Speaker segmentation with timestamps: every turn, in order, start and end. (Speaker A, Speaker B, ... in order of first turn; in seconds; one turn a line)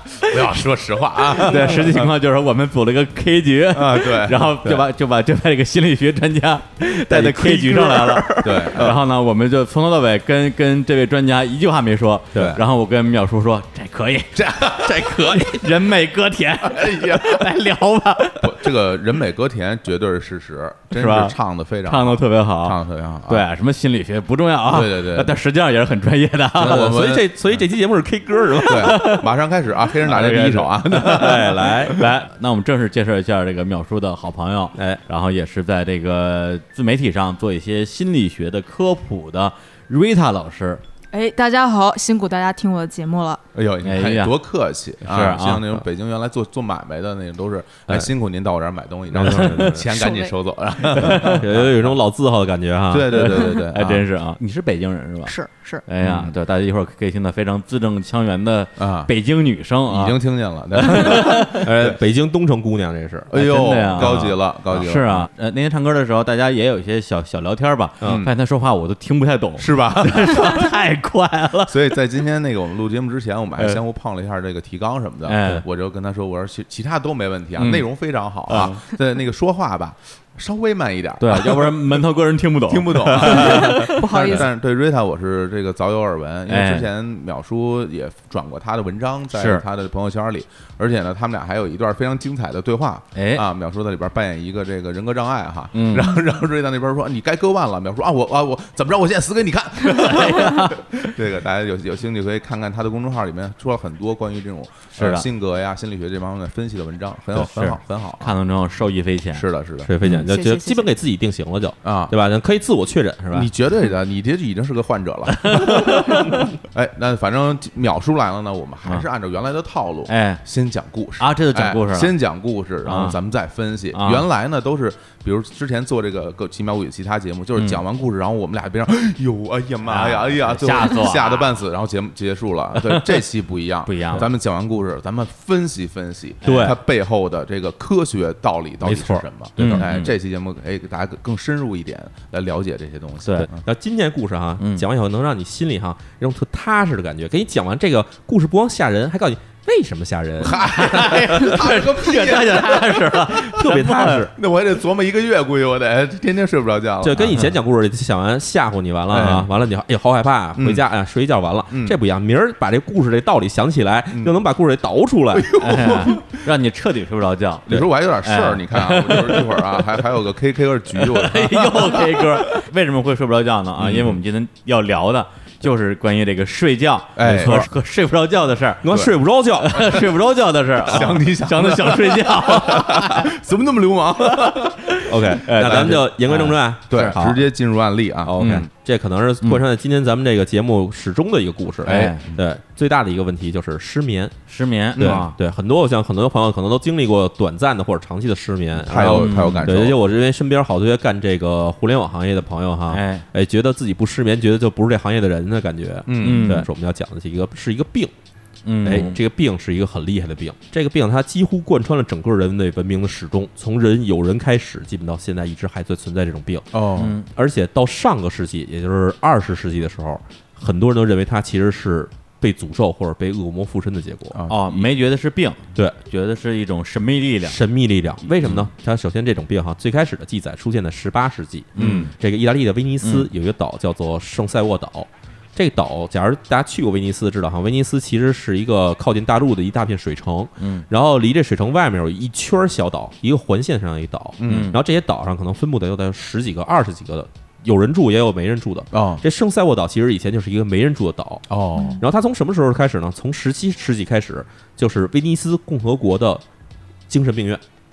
Speaker A: 0.2-2.1
Speaker B: 1.4-18.6
Speaker A: 3.7-4.6
Speaker C: 7.1-8.9
Speaker A: 8.4-9.0
Speaker A: 12.3-12.6
Speaker A: 14.3-15.3
Speaker C: 15.0-15.5
Speaker A: 16.6-17.5
Speaker A: 18.4-23.5
Speaker B: 20.9-26.9
Speaker A: 24.7-25.3
Speaker A: 26.6-27.6
Speaker C: 26.6-29.0
Speaker A: 28.7-31.8
Speaker B: 28.7-29.2
Speaker B: 30.0-40.8
Speaker C: 31.0-32.0
Speaker C: 34.8-35.0
Speaker D: 41.1-43.4
Speaker A: 43.5-52.0
Speaker B: 43.9-44.4
Speaker B: 45.0-45.8
Speaker C: 49.1-49.9
Speaker B: 49.2-49.8
Speaker D: 49.9-50.3
Speaker B: 50.9-51.4
Speaker C: 51.0-53.3
Speaker A: 52.9-54.0
Speaker B: 53.1-55.3
Speaker D: 55.3-55.8
Speaker B: 55.9-60.2
Speaker A: 56.0-56.4
Speaker A: 58.8-59.1
Speaker A: 59.9-62.0
Speaker B: 60.8-61.6
Speaker C: 61.6-63.3
Speaker A: 63.3-65.3
Speaker B: 63.3-71.8
Speaker C: 64.0-64.3
Speaker C: 68.0-68.3
Speaker A: 68.0-68.3
Speaker A: 69.6-70.7
Speaker A: 71.7-82.0
Speaker B: 75.2-75.6
Speaker B: 77.6-77.9
Speaker B: 78.5-78.8
Speaker B: 81.2-84.5
Speaker A: 82.7-108.3
Speaker D: 83.4-84.5
Speaker B: 86.5-86.9
Speaker B: 89.3-89.6
Speaker B: 93.2-93.5
Speaker B: 95.7-96.2
Speaker B: 99.9-101.1
Speaker B: 104.9-105.3
Speaker B: 107.3-109.5
Speaker A: 109.3-110.0
Speaker C: 109.9-113.5
Speaker B: 110.0-110.3
Speaker D: 110.2-110.9
Speaker A: 111.8-112.2
Speaker A: 113.3-143.6
Speaker B: 115.4-116.2
Speaker B: 120.1-120.4
Speaker B: 121.2-122.2
Speaker B: 122.8-123.2
Speaker B: 123.9-124.3
Speaker B: 127.6-127.8
Speaker B: 129.9-131.4
Speaker B: 132.8-133.2
Speaker B: 133.9-134.3
Speaker B: 136.4-136.8
Speaker C: 136.4-136.8
Speaker B: 138.9-140.1
Speaker C: 139.6-139.9
Speaker C: 143.6-150.6
Speaker B: 144.6-144.8
Speaker A: 150.4-153.6
Speaker B: 150.5-154.3
Speaker C: 153.5-154.3
Speaker A: 154.3-157.6
Speaker C: 157.0-166.0
Speaker A: 159.1-159.5
Speaker A: 160.6-160.8
Speaker A: 161.7-162.0
Speaker A: 165.3-166.2
Speaker B: 165.6-169.8
Speaker A: 167.7-172.4
Speaker B: 170.9-178.9
Speaker A: 173.8-174.2
Speaker A: 177.2-177.7
Speaker C: 177.3-177.7
Speaker C: 178.8-179.9
Speaker B: 179.6-183.3
Speaker A: 180.8-186.0
Speaker B: 185.0-187.4
Speaker C: 185.0-187.3
Speaker A: 186.9-188.6
Speaker C: 188.2-194.4
Speaker B: 188.4-188.7
Speaker A: 191.8-192.4
Speaker B: 191.8-192.2
Speaker B: 194.5-195.4
Speaker C: 195.0-208.1
Speaker A: 198.7-200.0
Speaker B: 199.0-199.7
Speaker B: 202.9-203.2
Speaker A: 206.1-206.6
Speaker B: 206.2-206.7
Speaker B: 208.7-209.2
Speaker C: 208.8-216.7
Speaker A: 216.7-217.1
Speaker B: 217.0-217.3
Speaker C: 217.3-224.4
Speaker A: 224.3-224.9
Speaker B: 224.5-227.6
Speaker C: 227.4-251.4
Speaker B: 231.8-232.1
Speaker A: 231.8-232.1
Speaker B: 233.0-233.3
Speaker B: 240.6-240.9
Speaker A: 244.4-244.8
Speaker B: 244.5-244.8
Speaker A: 248.9-249.2
Speaker A: 251.5-252.0
Speaker D: 251.8-252.0
Speaker C: 252.0-256.4
Speaker C: 257.1-257.6